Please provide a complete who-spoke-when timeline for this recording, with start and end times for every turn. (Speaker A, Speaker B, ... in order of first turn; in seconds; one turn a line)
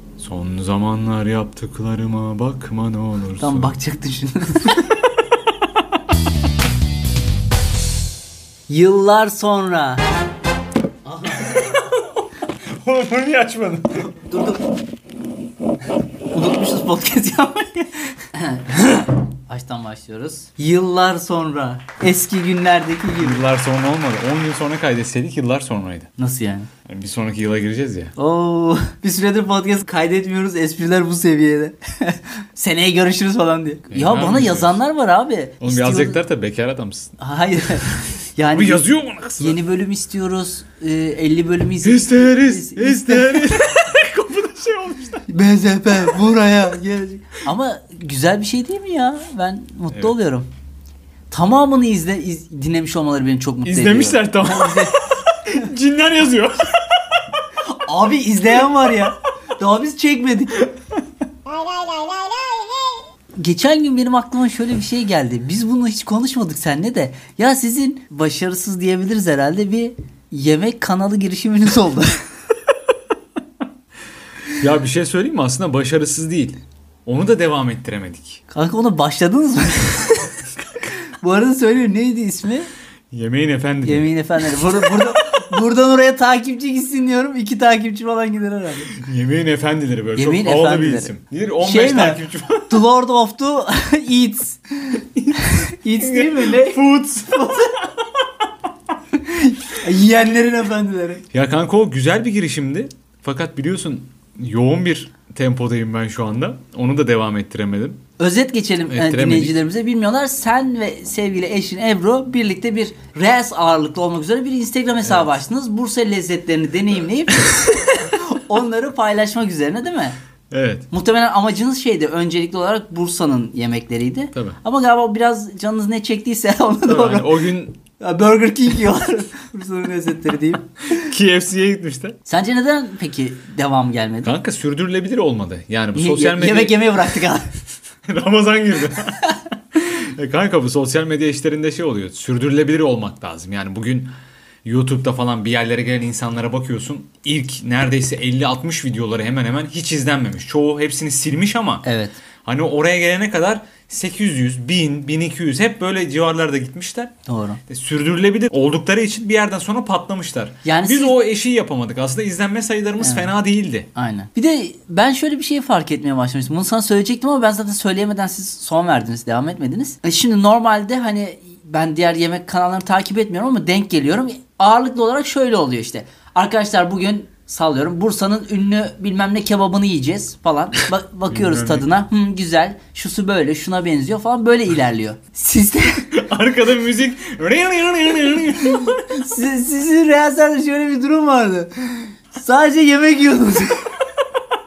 Speaker A: 0.2-3.8
Speaker B: 3.4-4.8
Speaker A: 4.7-5.1
Speaker B: 8.7-10.0
Speaker B: 11.1-11.6
Speaker A: 11.4-12.0
Speaker A: 12.8-14.1
Speaker B: 14.1-14.6
Speaker B: 16.3-23.4
Speaker A: 23.2-26.1
Speaker B: 26.2-26.7
Speaker A: 26.9-28.1
Speaker B: 28.2-36.2
Speaker A: 33.9-34.8
Speaker A: 35.6-37.1
Speaker B: 37.2-38.9
Speaker A: 38.5-39.6
Speaker B: 39.4-43.7
Speaker A: 41.8-45.3
Speaker B: 45.3-50.5
Speaker B: 51.3-54.9
Speaker A: 53.7-57.2
Speaker B: 57.7-60.6
Speaker B: 63.4-72.2
Speaker A: 74.6-78.4
Speaker B: 78.5-82.7
Speaker A: 83.1-84.1
Speaker B: 83.8-88.9
Speaker A: 88.9-92.8
Speaker B: 90.2-97.7
Speaker A: 95.2-98.0
Speaker B: 99.2-101.2
Speaker A: 101.3-108.0
Speaker B: 108.2-120.2
Speaker A: 108.9-109.5
Speaker A: 120.5-120.9
Speaker B: 120.9-131.1
Speaker A: 126.9-127.8
Speaker A: 130.9-132.2
Speaker B: 132.3-134.3
Speaker A: 134.2-136.9
Speaker B: 135.9-137.5
Speaker A: 138.1-144.1
Speaker A: 144.7-151.8
Speaker B: 151.8-152.2
Speaker A: 152.4-157.1
Speaker B: 157.3-157.6
Speaker A: 157.7-163.9
Speaker B: 160.7-161.2
Speaker B: 163.0-163.3
Speaker B: 163.9-186.0
Speaker A: 181.3-181.9
Speaker A: 186.1-189.1
Speaker B: 188.7-193.9